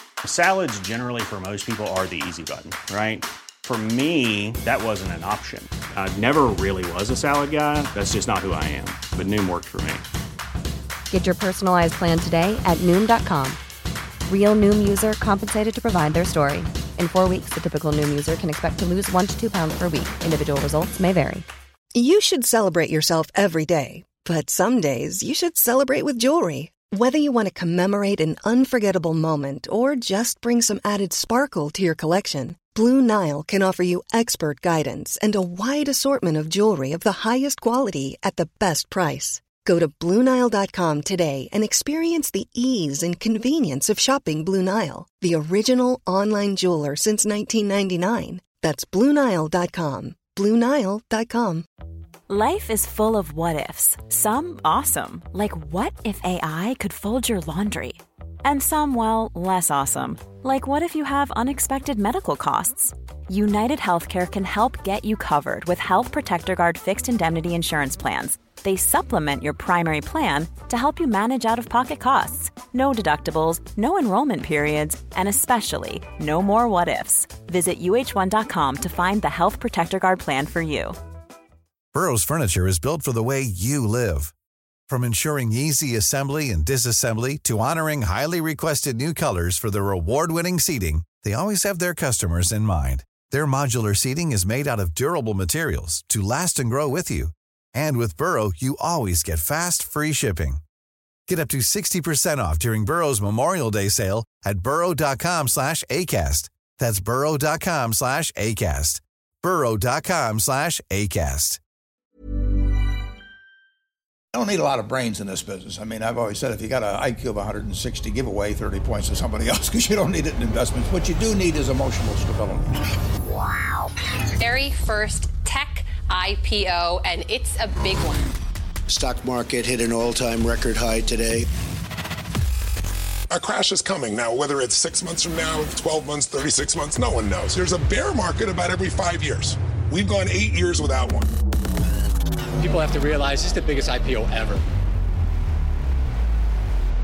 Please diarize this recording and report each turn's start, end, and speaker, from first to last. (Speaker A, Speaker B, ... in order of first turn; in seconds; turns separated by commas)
Speaker A: 0.2-10.0, Speaker B: 11.1-13.6, Speaker B: 14.3-21.5, Speaker C: 21.9-51.7, Speaker D: 52.3-81.0, Speaker E: 81.9-84.3, Speaker E: 84.9-100.6, Speaker E: 101.3-111.6, Speaker F: 114.3-122.7, Speaker G: 124.4-128.3, Speaker H: 128.9-131.5, Speaker I: 133.3-141.3, Speaker J: 142.6-144.6